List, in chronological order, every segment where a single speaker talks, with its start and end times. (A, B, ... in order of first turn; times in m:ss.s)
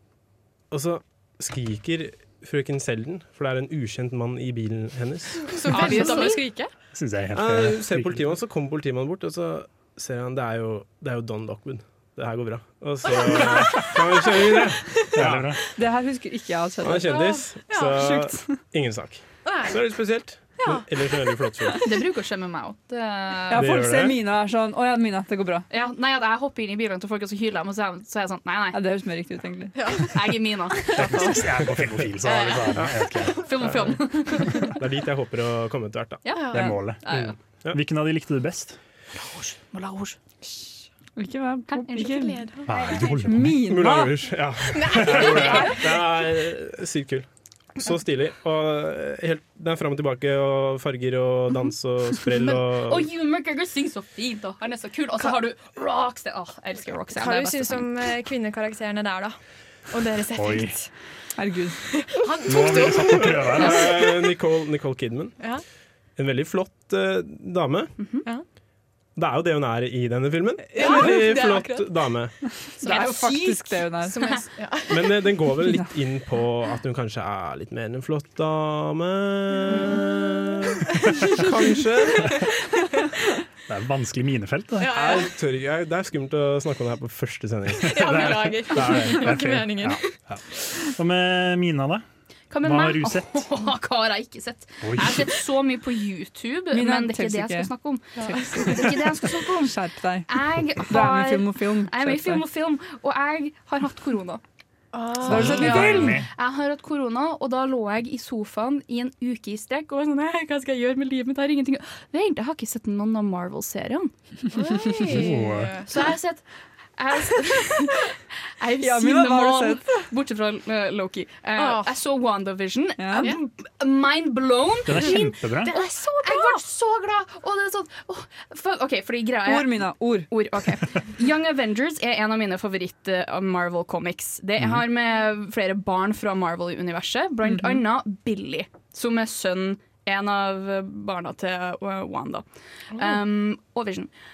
0:00.7-0:05.8 A
0:05.5-0:06.7 B
0:05.7-0:06.4 C
0:06.9-0:08.3 D
0:07.4-0:15.5 A
0:15.1-0:15.6 D
0:15.8-0:17.3 E
0:16.8-0:21.9 A
0:17.1-0:18.0 B
0:17.9-0:18.6 E
0:19.4-0:19.8 B
0:20.6-0:21.8 B
0:21.8-0:23.6 C
0:23.5-0:25.6 E
0:23.5-0:24.2 A
0:25.7-0:28.8 C
0:28.7-0:29.8 E
0:29.8-0:30.1 B
0:30.1-0:31.4 C
0:31.0-0:33.4 D
0:31.0-0:32.0 A
0:32.2-0:34.8 C
0:33.6-0:34.0 A
0:34.7-0:36.2 A
0:36.2-0:37.3 C
0:36.3-0:36.8 B
0:36.5-0:38.8 D
0:39.1-0:40.2 C
0:41.2-0:42.4 E
0:41.7-0:42.0 C
0:41.9-0:43.0 B
0:42.6-0:43.6 D
0:43.2-0:44.2 E
0:43.5-0:47.2 A
0:44.8-0:46.0 B
0:45.1-0:45.4 D
0:47.8-0:53.1 A
0:52.9-0:57.9 C
0:57.1-0:59.4 B
0:59.9-1:00.9 B
1:00.3-1:00.8 D
1:01.4-1:01.8 E
1:02.0-1:04.1 B
1:02.4-1:04.0 D
1:02.7-1:05.4 A
1:06.2-1:08.0 A
1:09.2-1:12.3 A
1:10.7-1:12.0 B
1:12.8-1:15.5 B
1:12.8-1:14.2 E
1:14.9-1:22.4 A
1:15.6-1:15.9 E
1:23.7-1:25.0 D
1:24.8-1:25.3 B
1:24.8-1:29.5 A
1:27.8-1:30.1 B
1:27.9-1:32.0 D
1:32.5-1:39.8 C
1:32.6-1:33.5 D
1:34.8-1:35.3 D
1:36.7-1:42.4 E
1:38.2-1:38.8 B
1:40.3-1:44.4 C
1:44.9-1:46.1 B
1:45.2-1:46.3 D
1:45.2-1:46.2 E
1:45.3-1:54.1 C
1:54.5-1:56.2 B
1:55.1-1:55.7 D
1:55.9-1:56.4 C
1:57.0-2:24.1 C
1:58.8-1:59.9 E
2:01.6-2:01.9 B
2:03.0-2:03.3 E
2:04.8-2:05.7 D
2:05.6-2:06.6 B
2:09.4-2:10.3 E
2:17.4-2:17.8 E